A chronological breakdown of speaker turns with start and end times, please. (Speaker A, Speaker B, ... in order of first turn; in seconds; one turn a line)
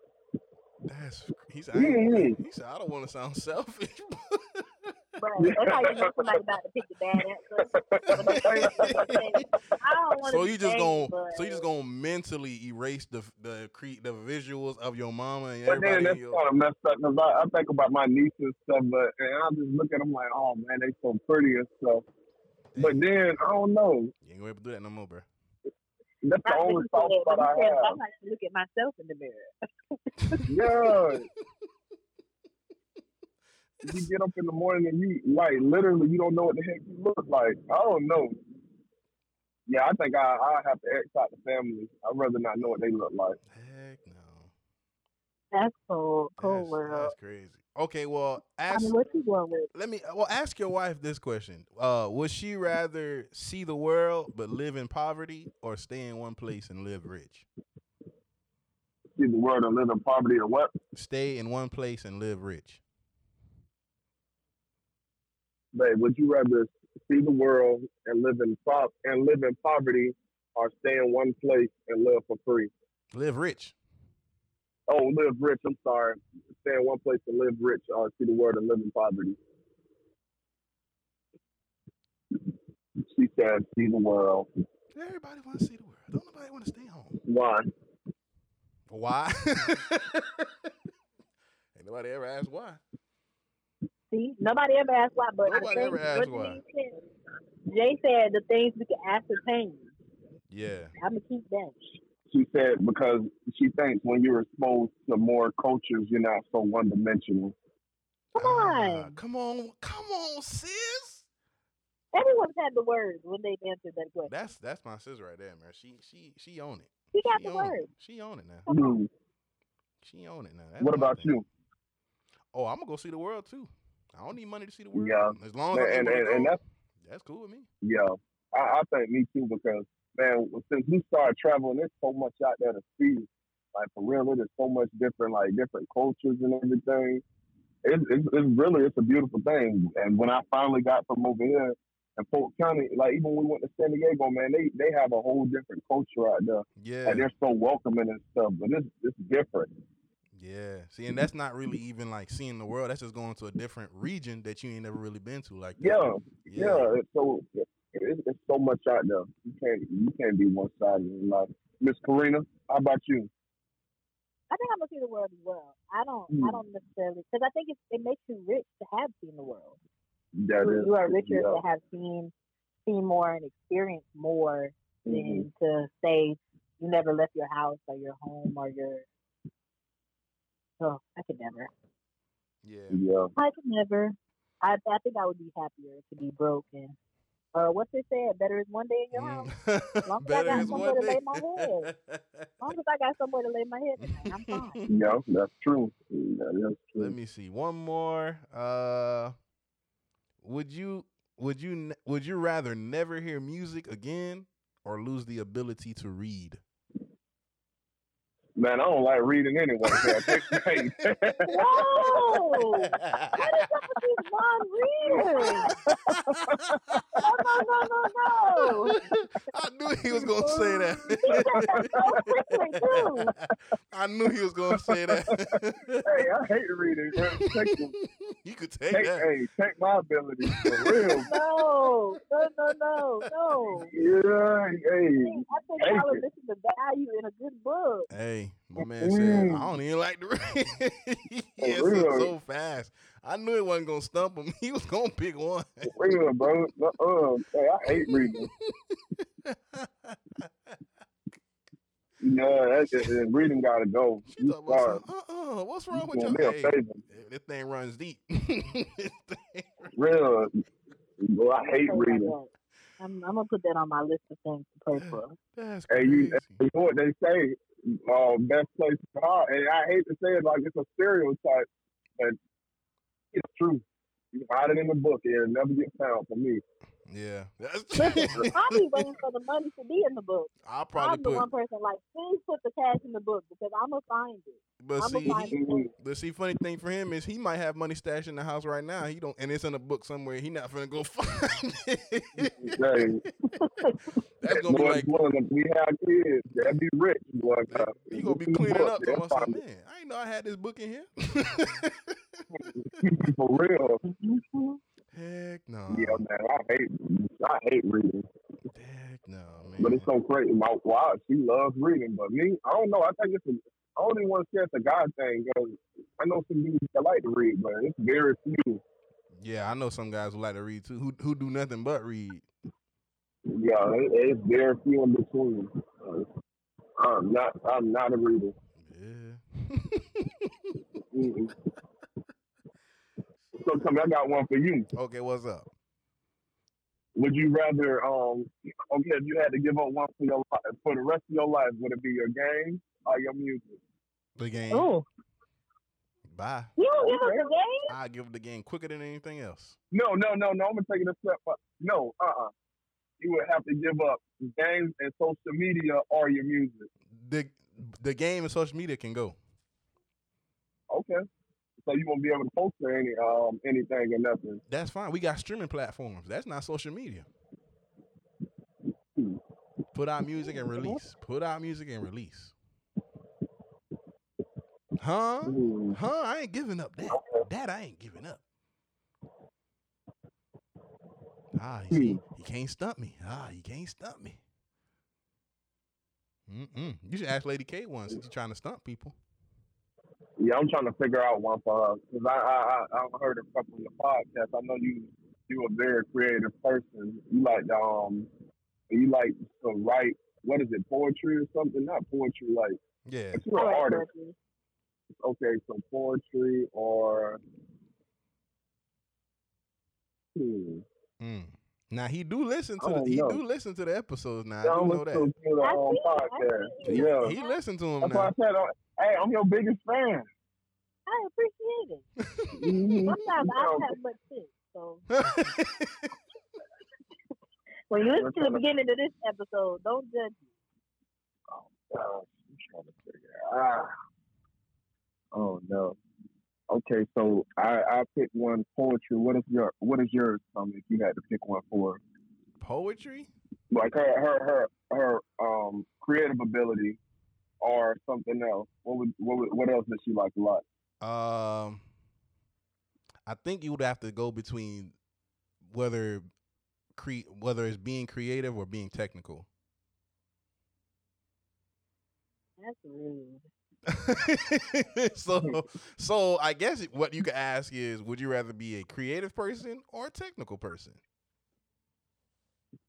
Speaker A: 0.9-4.9
Speaker B: 1.7-2.4
Speaker C: 5.2-11.6
Speaker B: 5.4-6.4
Speaker B: 7.7-9.4
Speaker A: 8.3-9.4
Speaker A: 10.2-16.4
Speaker B: 15.7-22.1
Speaker A: 22.7-23.0
Speaker B: 22.8-24.1
Speaker A: 24.2-25.2
Speaker B: 26.2-28.0
Speaker C: 26.4-29.5
Speaker C: 30.1-30.5
Speaker B: 30.5-31.2
Speaker A: 33.8-34.1
Speaker B: 33.8-38.4
Speaker B: 39.7-43.4
Speaker A: 43.5-44.5
Speaker C: 45.5-47.1
Speaker A: 46.4-49.0
Speaker C: 48.7-49.7
Speaker A: 49.7-57.5
Speaker B: 59.1-60.7
Speaker A: 60.9-62.8
Speaker B: 65.7-72.7
Speaker A: 73.1-73.7
Speaker B: 74.9-79.4
Speaker B: 83.1-84.5
Speaker A: 84.9-87.2
Speaker B: 87.2-87.7
Speaker A: 88.9-90.5
Speaker A: 91.7-92.8
Speaker C: 94.1-96.9
Speaker A: 95.4-96.6
Speaker C: 97.7-99.9
Speaker A: 100.5-100.9
Speaker C: 101.0-102.0
Speaker B: 102.3-107.5
Speaker C: 108.3-109.1
Speaker A: 108.3-111.2
Speaker C: 112.1-114.3
Speaker A: 114.3-118.7
Speaker C: 117.1-117.9
Speaker C: 118.7-119.0
Speaker B: 118.7-119.1
Speaker A: 120.0-121.3
Speaker B: 120.8-121.5
Speaker A: 122.5-127.7
Speaker B: 124.9-126.6
Speaker B: 127.8-137.2
Speaker B: 137.8-149.7
Speaker A: 146.8-147.3
Speaker A: 150.3-156.9
Speaker B: 155.8-163.3
Speaker C: 164.5-169.8
Speaker B: 166.3-166.6
Speaker B: 170.4-171.6
Speaker C: 170.6-172.3
Speaker C: 172.8-179.1
Speaker B: 175.1-175.4
Speaker C: 180.8-181.7
Speaker A: 182.6-183.0
Speaker B: 182.9-183.3
Speaker C: 183.3-186.9
Speaker C: 187.5-189.5
Speaker A: 189.1-192.7
Speaker C: 190.1-191.9
Speaker B: 190.5-190.8
Speaker C: 192.6-194.8
Speaker A: 194.0-194.9
Speaker B: 194.9-197.2
Speaker A: 197.0-199.3
Speaker A: 200.4-206.6
Speaker B: 208.6-212.6
Speaker A: 209.8-210.9
Speaker C: 211.5-215.8
Speaker A: 213.0-213.4
Speaker B: 215.1-217.2
Speaker A: 216.1-216.6
Speaker C: 217.2-219.0
Speaker A: 218.6-223.1
Speaker C: 220.4-223.3
Speaker B: 221.1-222.2
Speaker A: 223.9-226.2
Speaker B: 224.7-227.9
Speaker A: 227.3-229.3
Speaker B: 228.9-231.3
Speaker A: 230.4-231.9
Speaker C: 231.2-233.9
Speaker A: 233.2-233.7
Speaker B: 233.9-236.2
Speaker C: 235.2-238.1
Speaker A: 238.1-245.9
Speaker B: 238.8-239.7
Speaker B: 241.6-242.3
Speaker B: 245.9-248.5
Speaker A: 248.1-250.7
Speaker B: 252.2-255.0
Speaker A: 254.3-259.9
Speaker B: 255.9-257.0
Speaker B: 259.9-260.5
Speaker B: 261.2-262.3
Speaker C: 261.8-265.4
Speaker A: 264.9-266.6
Speaker B: 265.9-272.4
Speaker B: 273.3-276.6
Speaker A: 277.1-279.0
Speaker C: 278.0-285.9
Speaker A: 280.6-281.4
Speaker A: 284.8-292.8
Speaker B: 285.4-285.9
Speaker B: 292.4-293.2
Speaker C: 293.6-293.9
Speaker A: 294.4-295.1
Speaker B: 294.5-299.6
Speaker A: 297.7-302.4
Speaker B: 302.6-304.0
Speaker C: 304.1-304.8
Speaker A: 305.1-306.2
Speaker B: 305.9-308.3
Speaker A: 308.7-310.1
Speaker B: 309.8-318.8
Speaker A: 319.3-322.5
Speaker B: 323.5-326.3
Speaker B: 327.0-328.5
Speaker A: 328.8-330.7
Speaker B: 331.1-331.5
Speaker B: 333.6-334.9
Speaker A: 334.9-335.7
Speaker B: 337.1-343.8
Speaker A: 344.4-344.9
Speaker C: 344.7-345.0
Speaker A: 346.3-346.7
Speaker C: 346.8-347.9
Speaker B: 347.0-347.5
Speaker A: 347.9-349.8
Speaker B: 349.9-352.5
Speaker B: 353.2-356.9
Speaker A: 357.1-359.4
Speaker B: 360.9-361.2
Speaker B: 361.8-364.6
Speaker A: 364.7-367.3
Speaker A: 369.9-372.5
Speaker A: 375.0-378.4
Speaker B: 375.4-376.0
Speaker B: 377.1-377.4
Speaker A: 381.5-384.4
Speaker B: 381.9-382.2
Speaker A: 386.5-389.1
Speaker B: 390.4-398.3
Speaker B: 398.9-402.8
Speaker A: 403.1-403.4
Speaker B: 403.3-404.1
Speaker C: 403.5-404.3
Speaker B: 405.2-407.4
Speaker B: 410.3-410.8
Speaker A: 411.2-415.3
Speaker B: 412.8-413.4
Speaker B: 414.6-417.4
Speaker C: 415.6-417.6
Speaker A: 416.8-418.3
Speaker B: 418.0-420.3
Speaker C: 421.1-422.1
Speaker B: 422.5-423.9
Speaker C: 423.1-425.0
Speaker A: 425.1-426.1
Speaker C: 427.9-430.4
Speaker B: 428.0-428.6
Speaker B: 431.5-433.9
Speaker B: 435.3-436.0
Speaker B: 436.7-442.0
Speaker A: 442.6-443.3
Speaker B: 443.7-447.0
Speaker B: 447.6-450.6
Speaker A: 451.0-451.8
Speaker A: 453.2-454.9
Speaker A: 455.6-456.2
Speaker A: 456.9-459.5
Speaker C: 462.6-463.4
Speaker A: 463.9-471.0